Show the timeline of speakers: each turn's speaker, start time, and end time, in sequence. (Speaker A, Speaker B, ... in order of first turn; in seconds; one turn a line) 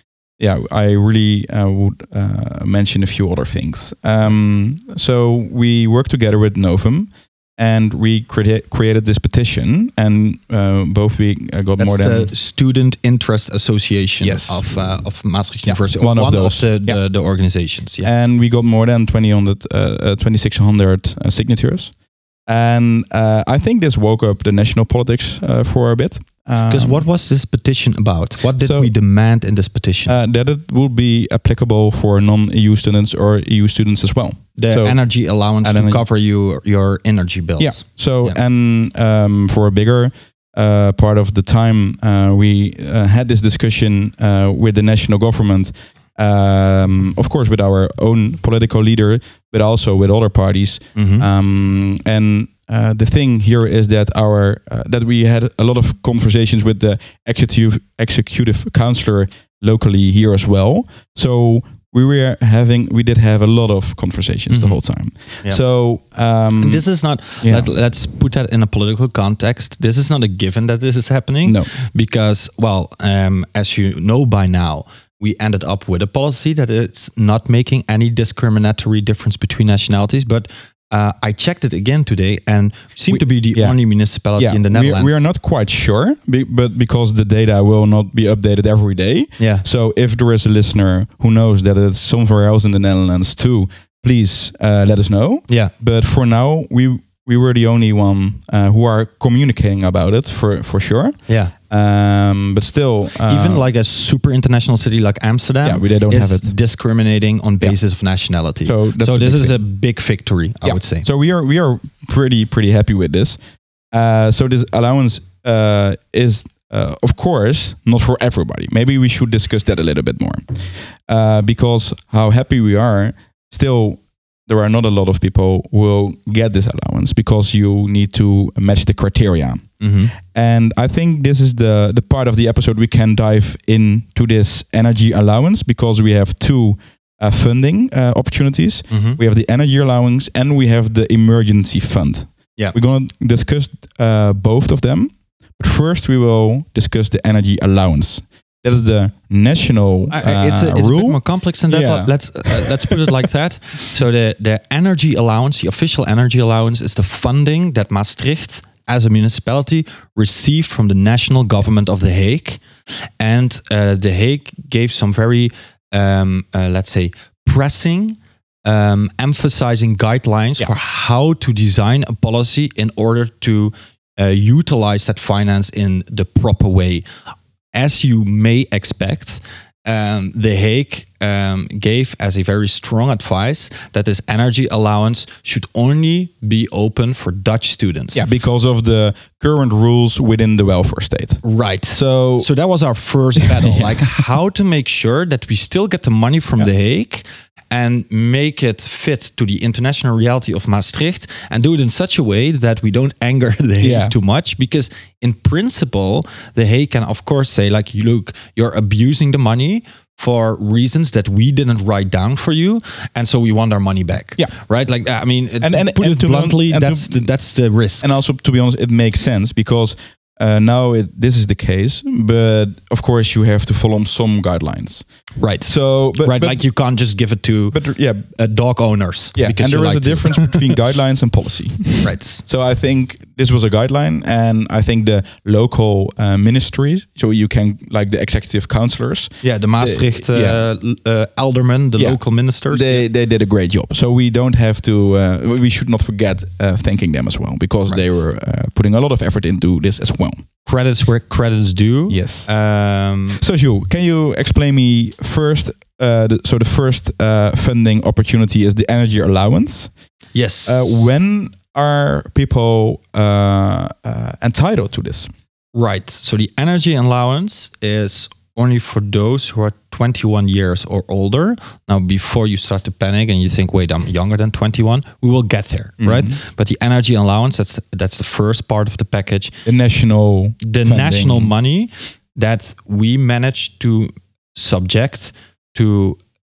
Speaker A: 0.4-12.3
Speaker B: 11.8-18.1
Speaker A: 14.2-14.7
Speaker A: 15.6-17.0
Speaker A: 18.0-27.0
Speaker B: 26.6-30.1
Speaker A: 28.6-28.9
Speaker A: 30.1-35.0
Speaker B: 34.6-38.4
Speaker A: 35.6-36.0
Speaker A: 37.6-66.8
Speaker B: 50.9-51.2
Speaker B: 64.5-64.8
Speaker B: 66.6-85.2
Speaker A: 67.4-67.7
Speaker A: 71.4-71.7
Speaker A: 83.1-83.8
Speaker A: 84.3-103.6
Speaker B: 89.4-89.6
Speaker B: 101.3-101.5
Speaker B: 103.2-111.0
Speaker A: 105.6-106.5
Speaker A: 108.6-109.6
Speaker A: 110.6-153.1
Speaker B: 129.8-130.1
Speaker B: 138.9-139.2
Speaker B: 150.1-177.0
Speaker B: 177.7-188.2
Speaker A: 188.1-192.5
Speaker B: 191.4-218.1
Speaker A: 193.4-194.2
Speaker A: 203.8-204.1
Speaker A: 215.6-217.3
Speaker A: 218.0-225.1
Speaker B: 225.4-230.6
Speaker A: 225.6-226.6
Speaker A: 227.7-228.3
Speaker A: 229.3-240.6
Speaker B: 232.0-232.4
Speaker B: 239.4-243.0
Speaker A: 242.0-250.4
Speaker B: 247.9-248.1
Speaker B: 250.6-253.4
Speaker A: 252.1-252.5
Speaker A: 253.3-259.9
Speaker B: 260.3-261.1
Speaker A: 260.6-265.3
Speaker B: 265.7-279.5
Speaker A: 276.0-276.4
Speaker A: 279.6-281.5
Speaker B: 280.6-286.2